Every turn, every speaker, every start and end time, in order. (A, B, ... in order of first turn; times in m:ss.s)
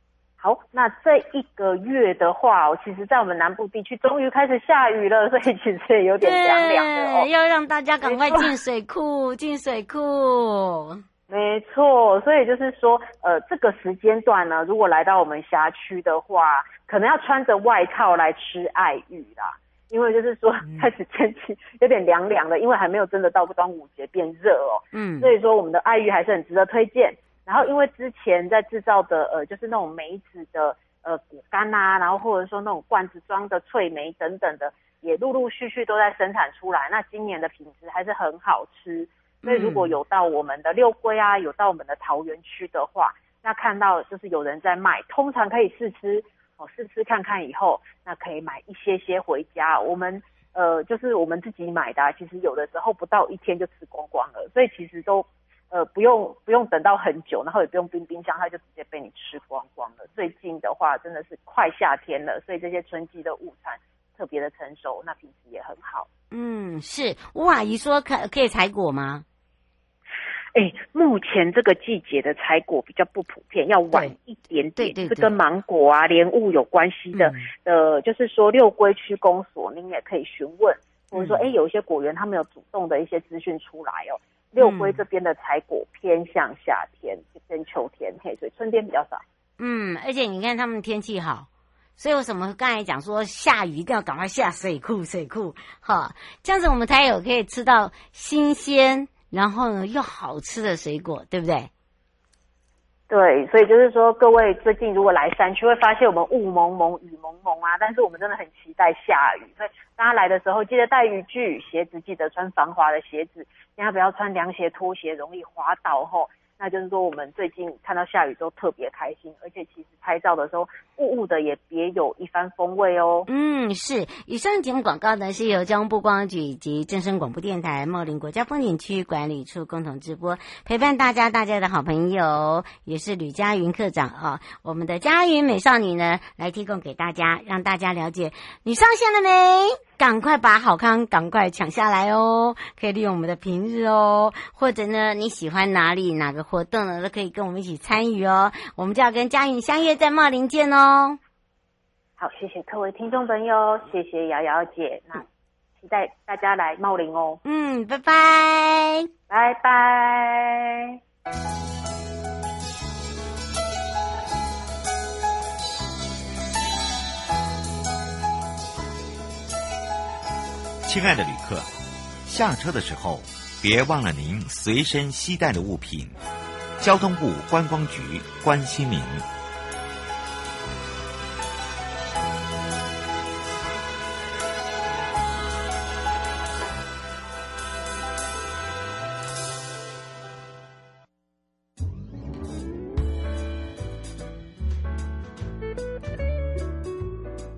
0:00.4-0:07.3 A
0:06.2-0:11.0 B
0:08.0-0:08.5 A
0:11.3-1:06.1 A
0:20.6-0:20.9 B
0:24.9-0:25.3 B
0:39.4-0:39.9 B
1:06.3-1:09.2 B
1:10.5-1:29.2 A
1:14.8-1:15.3 B
1:17.1-1:17.5 B
1:21.1-1:21.5 B
1:24.6-1:25.0 B
1:29.6-1:31.5 B
1:32.0-1:41.7 B
1:43.1-2:03.3 A
2:03.3-2:31.2 B
2:32.2-2:35.3 A
2:35.8-2:37.4 A
2:37.4-2:39.1 B
2:39.3-2:41.0 A
2:50.8-2:51.7 C
2:52.3-2:56.2 C
2:56.8-2:59.3 C